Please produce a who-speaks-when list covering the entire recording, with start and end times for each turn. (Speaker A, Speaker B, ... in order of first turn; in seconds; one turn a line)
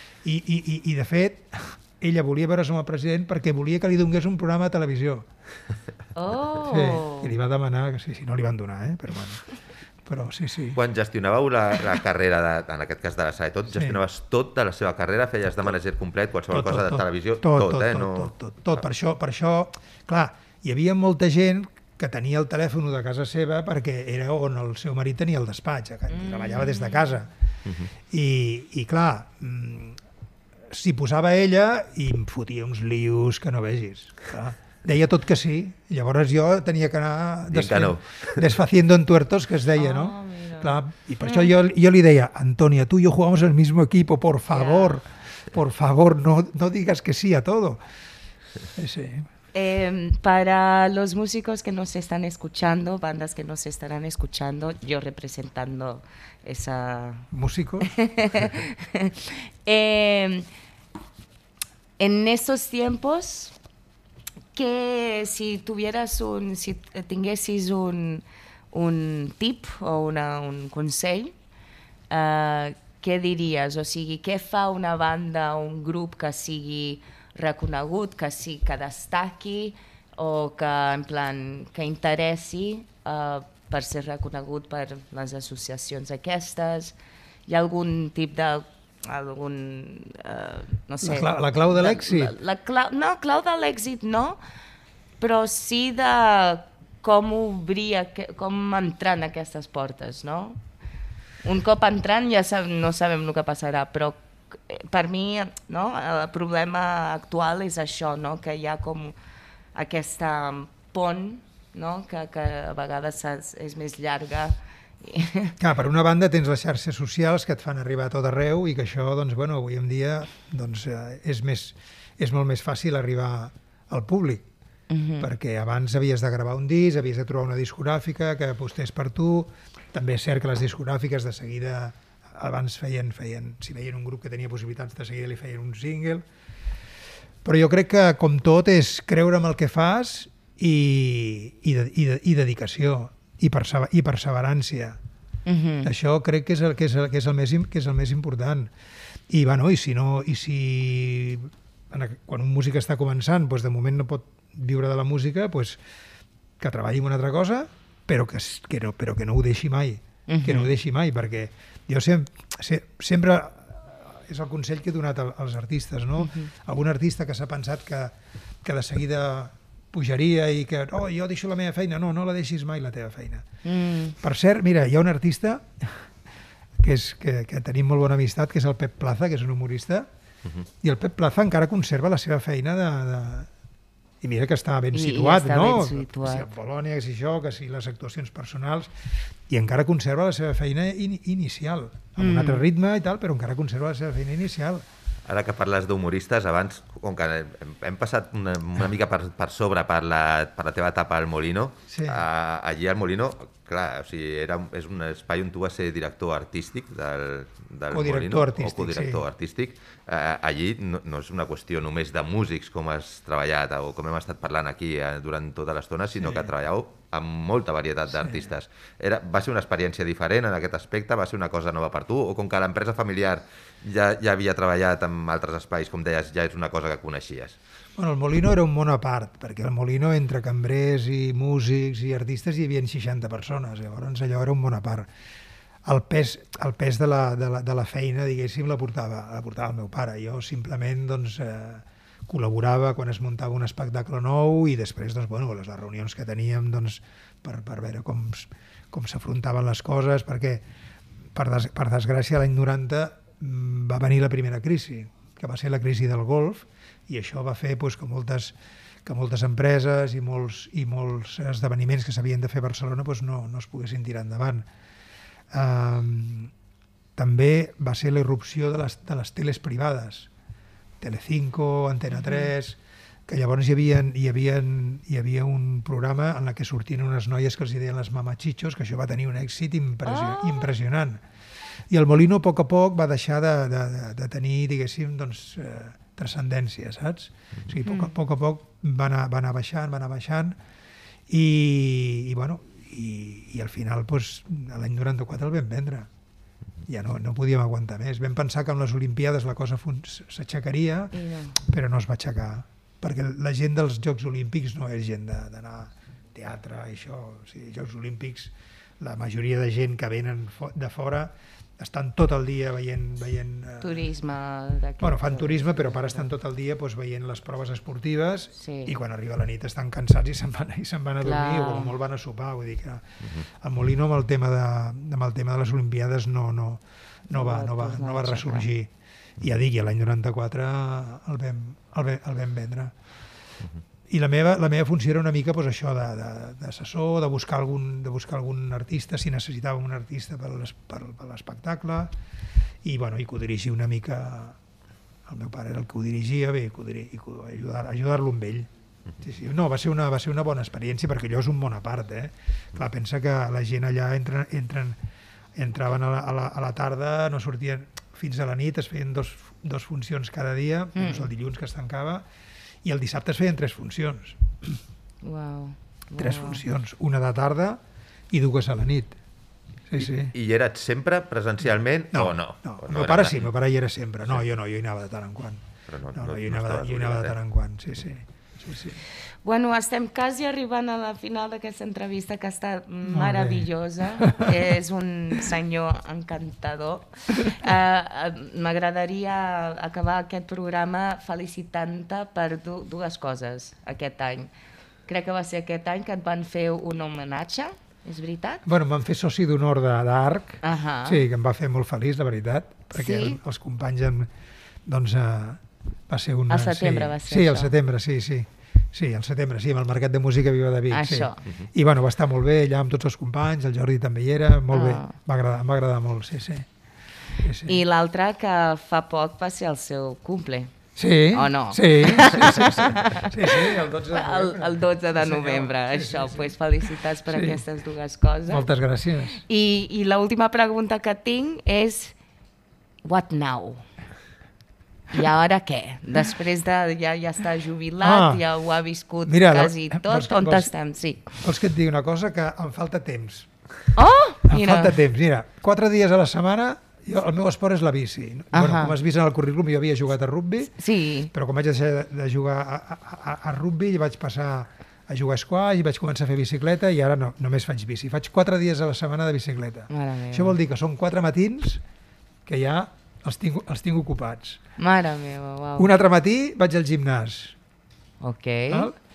Speaker A: 0.2-5.3
Speaker B: 6.1-7.3
Speaker A: 6.7-9.4
Speaker A: 10.1-10.8
Speaker C: 10.7-18.3
Speaker A: 13.7-14.0
Speaker A: 16.5-27.3
Speaker B: 26.1-27.1
Speaker C: 27.6-27.9
Speaker A: 28.1-30.0
Speaker A: 30.7-47.8
Speaker C: 37.5-38.5
Speaker B: 39.7-41.5
Speaker B: 44.5-45.0
Speaker A: 48.7-49.3
Speaker B: 49.5-57.2
Speaker A: 57.3-57.9
Speaker B: 57.8-60.5
Speaker B: 62.0-63.5
Speaker B: 64.5-71.3
Speaker B: 72.1-86.9
Speaker B: 87.5-94.4
Speaker A: 91.0-92.3
Speaker B: 95.2-100.6
Speaker B: 101.4-109.2
Speaker B: 109.7-115.6
Speaker A: 115.6-124.5
Speaker B: 124.9-125.3
Speaker A: 125.2-136.2
Speaker A: 137.4-145.0
Speaker B: 145.4-145.9
Speaker A: 145.8-148.7
Speaker A: 149.3-155.8
Speaker A: 156.6-173.4
Speaker B: 160.3-160.7
Speaker B: 166.2-166.5
Speaker B: 173.6-174.2
Speaker A: 174.2-176.1
Speaker A: 176.8-180.1
Speaker A: 180.8-183.5
Speaker A: 184.2-188.9
Speaker B: 184.9-186.5
Speaker A: 189.5-194.8
Speaker B: 192.2-192.6
Speaker C: 195.3-227.6
Speaker A: 201.9-202.2
Speaker A: 207.9-209.2
Speaker A: 216.2-216.5
Speaker A: 228.0-235.1
Speaker A: 235.8-250.6
Speaker A: 251.3-264.6
Speaker A: 265.5-266.5
Speaker A: 267.1-270.3
Speaker A: 271.0-281.2
Speaker B: 272.1-272.5
Speaker B: 280.0-280.7
Speaker A: 281.9-290.6
Speaker B: 287.8-288.1
Speaker A: 291.3-296.1
Speaker A: 296.9-314.1
Speaker B: 301.1-301.6
Speaker B: 313.8-316.3
Speaker A: 315.0-332.9
Speaker B: 318.6-318.9
Speaker B: 321.2-321.9
Speaker B: 327.3-328.7
Speaker A: 334.1-342.1
Speaker A: 342.8-344.6
Speaker A: 345.2-348.7
Speaker A: 349.2-355.0
Speaker A: 355.5-362.2
Speaker B: 360.9-361.3
Speaker A: 362.8-364.8
Speaker B: 365.2-366.6
Speaker A: 366.2-369.2
Speaker A: 369.9-370.3
Speaker C: 370.0-373.5
Speaker A: 372.1-379.0
Speaker C: 375.9-377.3
Speaker B: 379.4-394.5
Speaker A: 383.1-383.7
Speaker A: 384.2-384.5
Speaker B: 395.1-398.6
Speaker A: 398.6-404.3
Speaker B: 400.6-401.2
Speaker B: 402.9-403.4
Speaker A: 404.9-416.7
Speaker B: 406.5-407.7
Speaker B: 410.9-411.4
Speaker B: 414.7-415.1
Speaker A: 417.4-417.8
Speaker B: 417.6-420.7
Speaker A: 420.9-426.5
Speaker B: 421.3-428.7
Speaker A: 427.2-427.6
Speaker A: 428.5-429.4
Speaker B: 429.4-432.1
Speaker B: 433.0-433.9
Speaker B: 435.1-441.4
Speaker A: 438.0-438.4
Speaker A: 439.2-440.7
Speaker A: 441.4-443.5
Speaker B: 443.9-445.0
Speaker A: 444.5-450.7
Speaker B: 448.5-448.9
Speaker B: 450.8-451.3
Speaker A: 451.3-461.8
Speaker B: 459.9-460.6
Speaker A: 462.4-464.6
Speaker B: 464.8-465.9
Speaker A: 465.8-467.6
Speaker B: 468.2-468.9
Speaker A: 468.7-468.9